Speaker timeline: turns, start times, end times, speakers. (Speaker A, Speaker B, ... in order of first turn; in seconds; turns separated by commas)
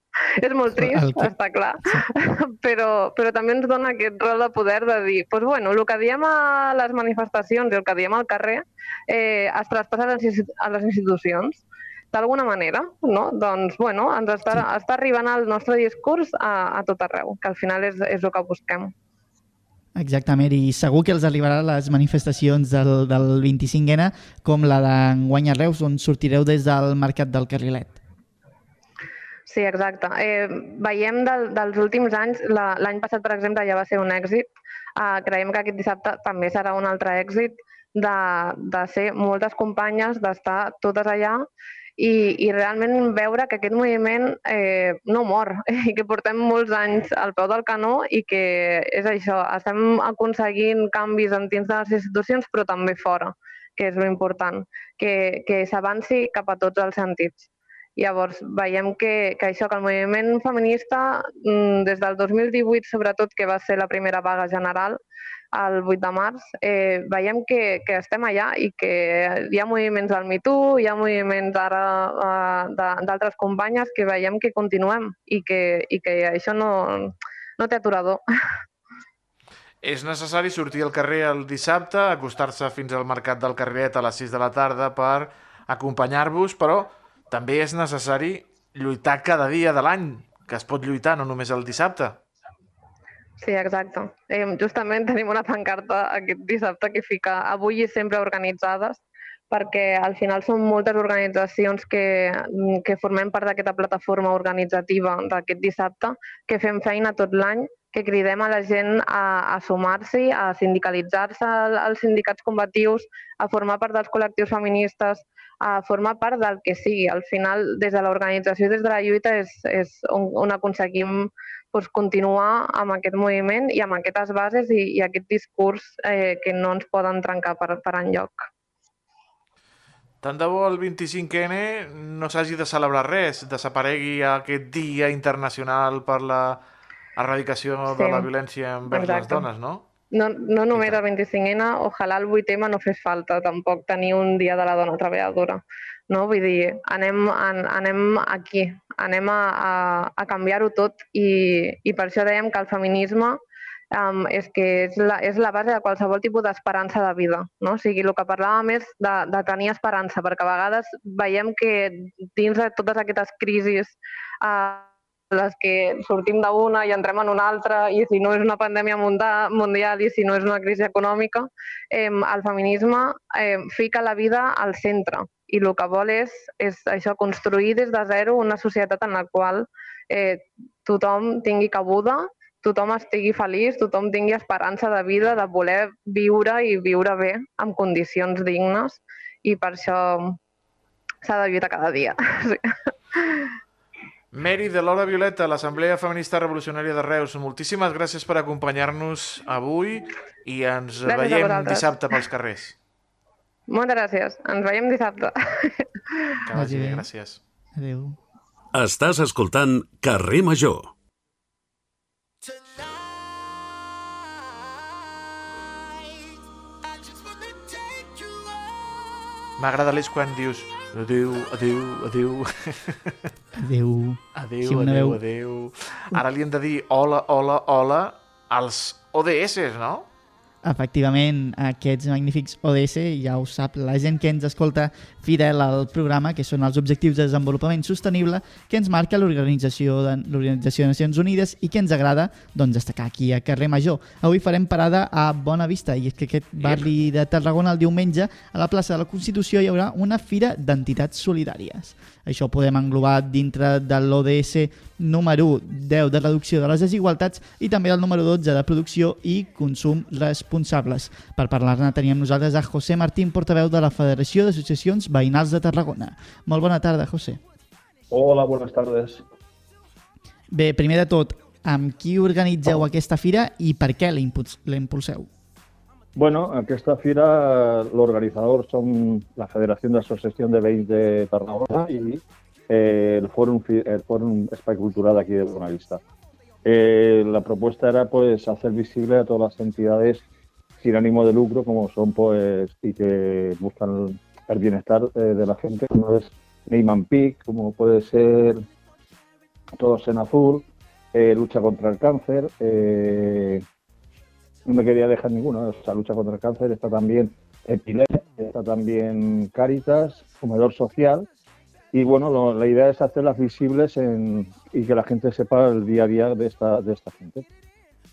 Speaker A: 0.4-18.9, Speaker B: 0.8-1.3, Speaker B: 20.0-28.0, Speaker A: 29.5-41.5, Speaker A: 42.0-65.0, Speaker A: 65.5-78.2, Speaker C: 79.8-92.2, Speaker A: 93.4-128.4, Speaker C: 130.2-136.6, Speaker C: 137.2-139.8, Speaker A: 137.9-138.3, Speaker A: 138.9-139.5, Speaker A: 140.1-153.4, Speaker C: 140.7-141.0, Speaker A: 153.9-190.4, Speaker A: 191.2-193.5, Speaker C: 194.3-202.8, Speaker A: 201.1-202.2, Speaker A: 203.7-206.4, Speaker C: 206.5-207.4, Speaker B: 206.6-207.1, Speaker B: 207.8-208.2, Speaker D: 208.7-210.9, Speaker C: 219.6-223.2, Speaker B: 223.6-225.2, Speaker C: 224.3-230.1, Speaker B: 230.6-267.4, Speaker E: 268.1-269.2, Speaker B: 270.5-275.3, Speaker E: 276.1-286.0, Speaker E: 286.6-290.2, Speaker E: 290.8-298.6, Speaker E: 299.8-303.6, Speaker E: 304.7-311.3, Speaker E: 311.9-317.4